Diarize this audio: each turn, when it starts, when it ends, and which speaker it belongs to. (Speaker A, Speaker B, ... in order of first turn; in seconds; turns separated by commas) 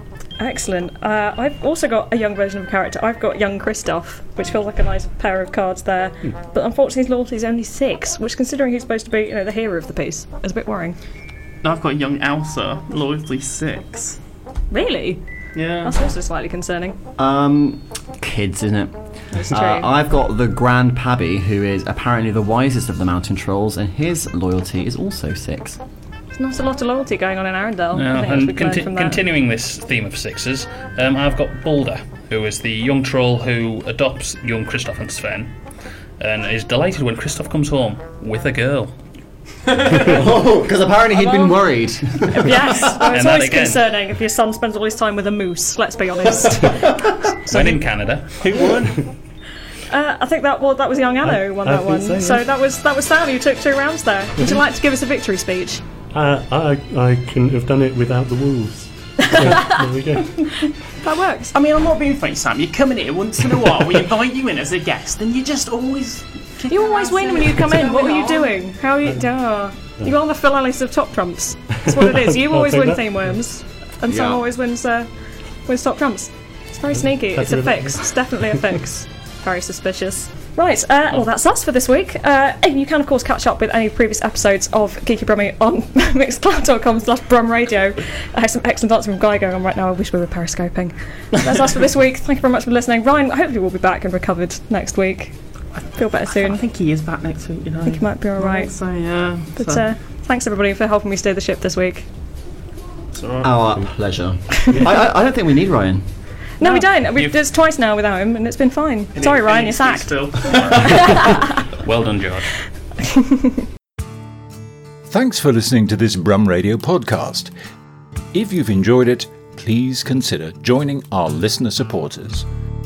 Speaker A: 0.4-11.0, Speaker B: 11.6-14.2, Speaker A: 14.7-15.2, Speaker B: 15.5-15.9, Speaker A: 15.8-17.0, Speaker C: 17.2-18.9, Speaker A: 19.3-19.9, Speaker C: 19.5-25.8, Speaker A: 26.3-29.2, Speaker D: 27.9-35.5, Speaker D: 36.2-38.9, Speaker C: 40.0-42.9, Speaker A: 41.1-41.6, Speaker A: 42.3-47.3, Speaker D: 43.1-43.8, Speaker D: 47.5-48.4, Speaker B: 47.5-47.9, Speaker B: 48.4-49.0, Speaker A: 49.9-55.8, Speaker E: 51.2-52.4, Speaker E: 56.1-60.5, Speaker A: 59.2-59.9, Speaker A: 61.0-61.5, Speaker B: 61.5-68.6, Speaker A: 66.7-75.1, Speaker E: 69.8-70.1, Speaker E: 71.7-73.3, Speaker A: 75.7-95.3, Speaker E: 76.9-78.1, Speaker A: 95.9-96.6, Speaker B: 96.3-99.8, Speaker A: 97.8-98.7, Speaker A: 99.6-102.1, Speaker B: 103.1-103.5, Speaker C: 103.4-106.0, Speaker A: 106.6-111.6, Speaker B: 106.6-107.3, Speaker B: 109.1-110.8, Speaker D: 110.5-111.0, Speaker D: 111.8-112.5, Speaker A: 113.1-113.3, Speaker F: 115.1-117.5, Speaker F: 118.3-122.5